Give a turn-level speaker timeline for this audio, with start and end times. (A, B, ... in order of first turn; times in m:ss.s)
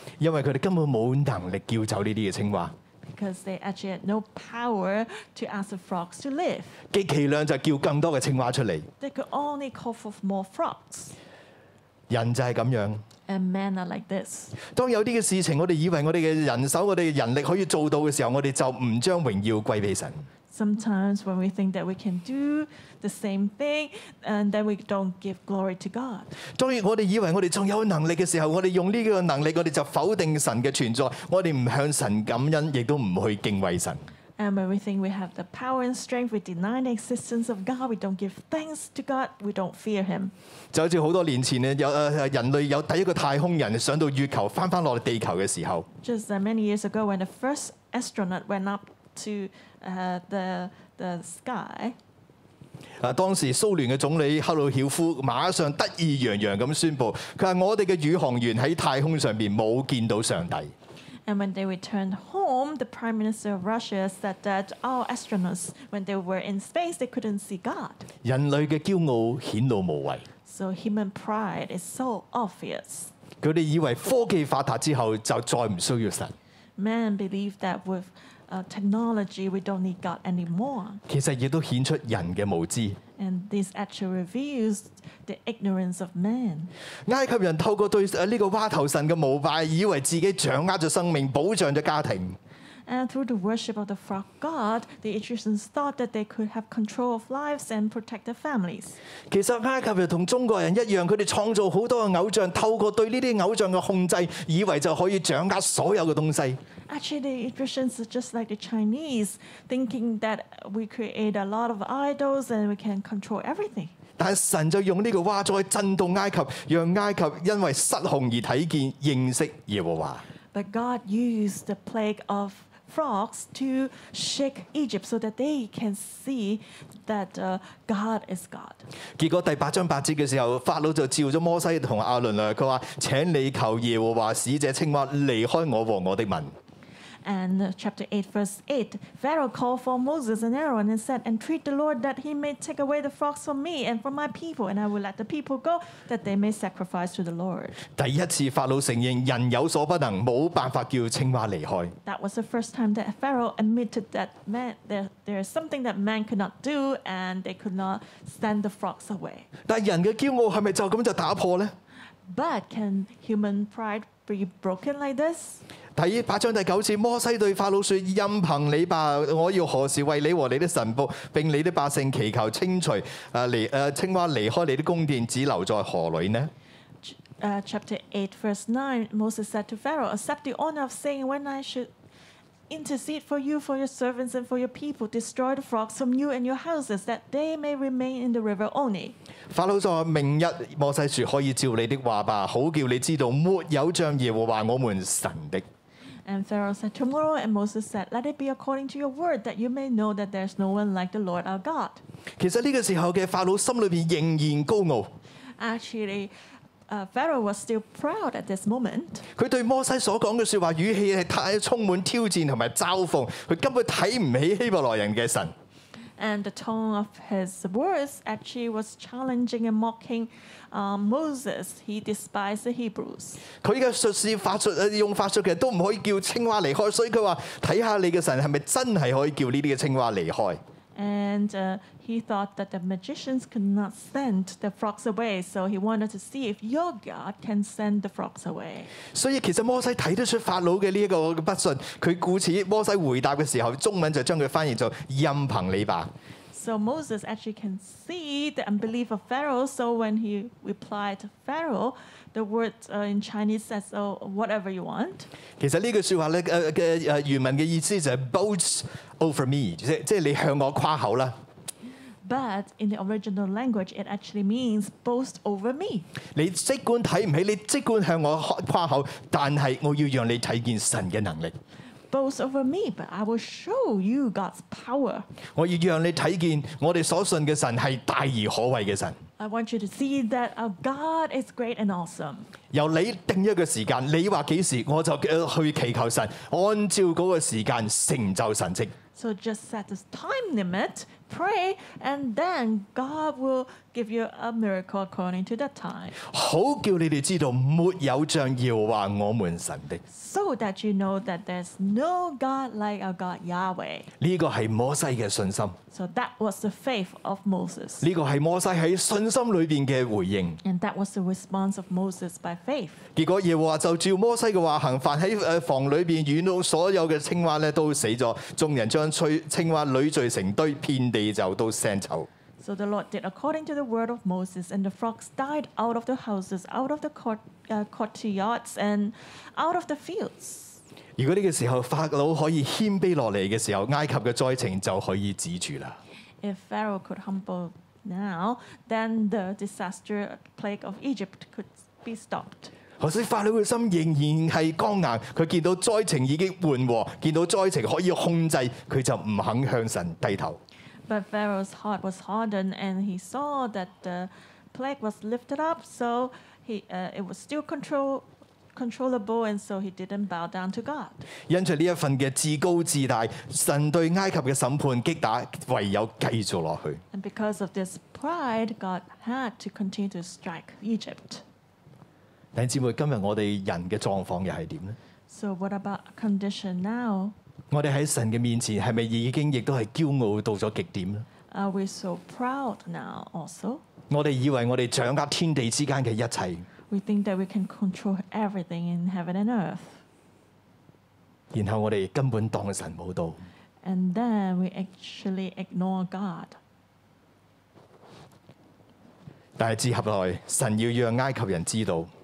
0:00.2-0:02.7 A
0:03.0-0:06.8 B
0:06.9-0:08.9 A
0:09.0-0:11.2 B
0:12.1-0:13.0 A
0:13.3-0:14.6 B
0:14.6-0:20.3 A
0:20.5-0:26.3 B
0:26.6-0:34.0 A
0:34.4-0:40.3 B
0:40.7-0:45.9 A
0:46.0-0:52.0 B
0:53.0-1:00.7 A
1:01.3-1:08.0 B
1:08.2-1:10.3 A
1:10.5-1:13.1 B
1:13.4-1:16.4 A
1:16.8-1:21.0 B
1:21.1-1:23.0 A
1:23.2-1:26.7 B
1:27.1-1:32.4 A
1:32.9-1:39.0 B
1:39.3-1:46.6 A
1:46.9-1:53.9 B
1:54.2-2:00.2 A
2:00.5-2:08.8 B
2:09.2-2:16.6 A
2:17.2-2:27.8 B
2:28.0-2:32.0 A
2:32.1-2:39.5 B
2:39.7-2:41.8 A
2:42.3-2:45.6 B
2:46.0-2:56.5 A
2:57.0-3:01.9 B
3:02.7-3:09.2 B
3:09.5-3:15.6 A
3:16.3-3:22.0 B
3:22.4-3:25.1 A
3:25.6-3:26.3 B
3:26.9-3:29.3 B
3:29.4-3:35.5 A
3:36.2-3:43.4 B
3:43.6-3:50.6 A
3:51.0-3:58.9 B
3:59.1-4:06.1 A
4:06.5-4:15.3 B
4:15.6-4:21.4 A
4:22.2-4:26.1 B
4:26.4-4:31.6 A
4:32.1-4:35.3 B
4:35.6-4:39.2 A
4:39.4-4:42.5 B
4:42.7-4:49.0 A
4:49.2-4:56.2 B
4:56.2-5:00.0 A
5:00.1-5:04.1 B
5:04.2-5:05.8 A
5:05.9-5:08.0 B
5:08.0-5:10.6 A
5:10.6-5:13.0 B
5:13.2-5:22.3 A
5:22.6-5:30.8 B
5:31.2-5:36.0 A
5:36.4-5:42.7 B
5:43.0-5:50.6 A
5:51.1-6:01.2 B
6:01.5-6:07.0 A
6:07.1-6:11.4 B
6:12.6-6:15.0 A
6:15.3-6:17.4 B
6:17.7-6:21.3 A
6:21.5-6:23.8 B
6:24.1-6:26.7 A
6:26.9-6:30.0 B
6:31.5-6:33.4 A
6:33.8-6:36.6 B
6:39.6-6:42.1 A